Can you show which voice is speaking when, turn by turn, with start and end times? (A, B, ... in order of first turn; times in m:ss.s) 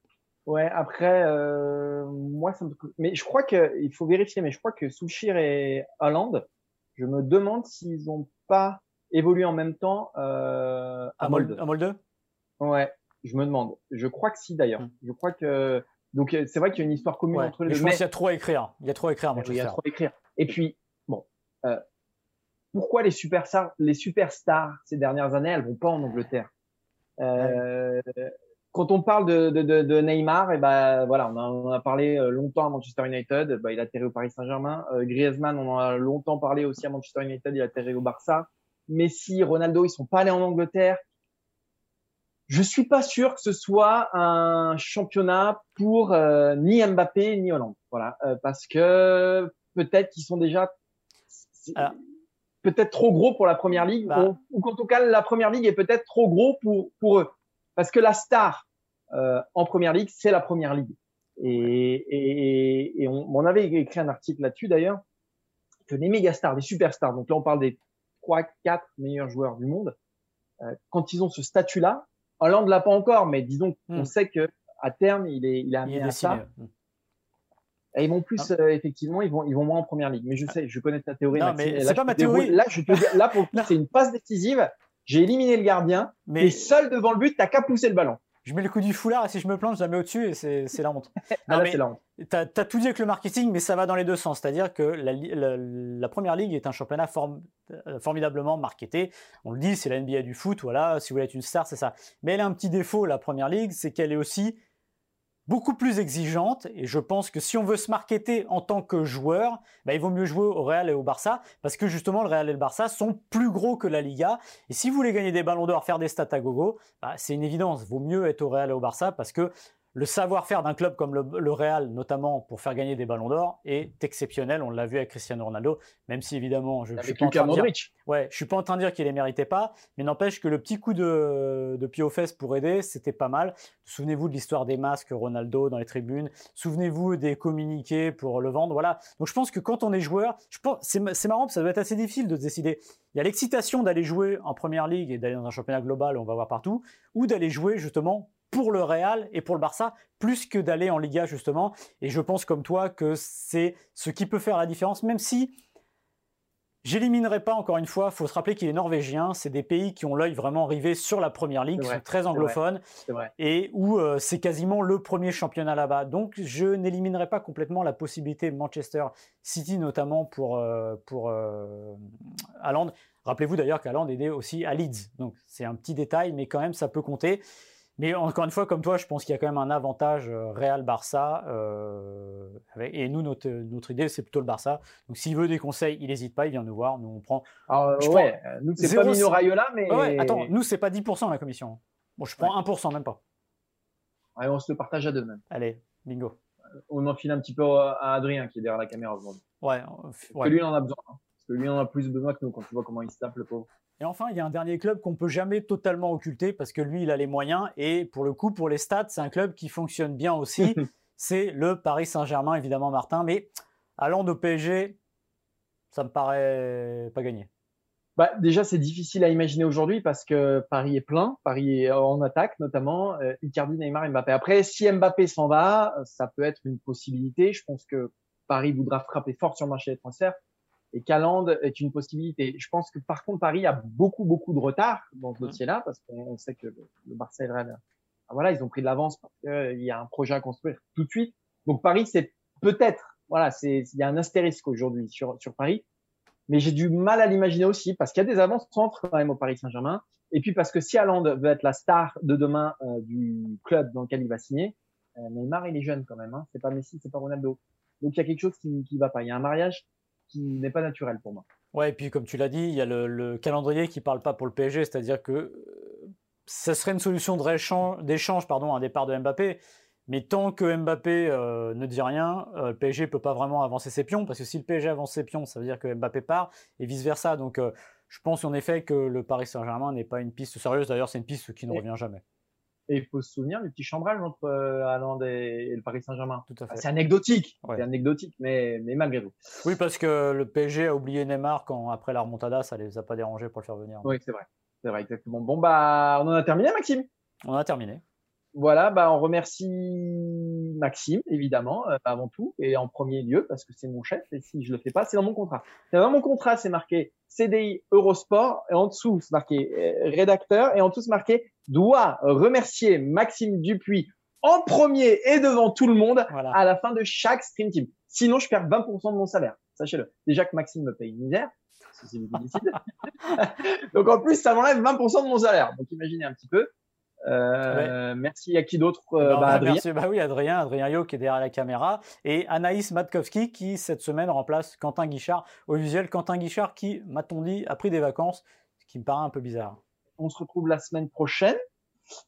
0:00.5-0:06.5 A
0:07.0-0:11.6 A
0:11.2-0:12.0 B
0:12.6-0:18.0 A
0:17.3-0:19.8 B
0:19.4-0:21.8 A
0:22.7-0:26.5 A
0:27.2-0:41.0 A
0:42.5-0:50.7 A
0:51.3-0:52.0 A
0:52.6-1:05.0 A
0:54.1-0:54.3 B
1:05.9-1:10.0 A
1:10.6-1:16.4 A
1:15.8-1:16.7 B
1:17.9-1:28.2 A
1:21.4-1:23.7 B
1:26.3-1:26.7 B
1:28.4-1:44.6 B
1:31.5-1:32.0 A
1:45.5-2:35.5 B
2:07.0-2:07.9 A
2:36.8-2:42.8 B
2:41.8-2:43.3 A
2:43.4-2:52.0 B
2:52.6-2:57.4 B
2:58.0-3:09.3 B
3:07.7-3:10.5 A
3:09.9-3:13.2 B
3:14.4-3:15.4 A
3:15.5-3:16.4 B
3:16.9-3:19.4 A
3:19.6-3:20.6 B
3:20.3-3:23.7 A
3:24.0-3:35.0 B
3:35.9-3:37.5 B
3:38.2-3:50.4 A
3:50.9-4:05.8 A
4:06.5-4:21.5 A
4:21.7-4:42.2 B
4:42.9-4:49.4 A
4:46.5-4:46.8 B
4:49.6-4:54.1 B
4:54.0-4:57.1 A
4:57.4-4:58.0 B
4:58.6-5:26.7 A
5:16.3-5:16.6 B
5:27.2-5:29.8 A
5:27.7-5:27.9 B
5:29.2-5:39.8 B
5:40.2-5:41.6 A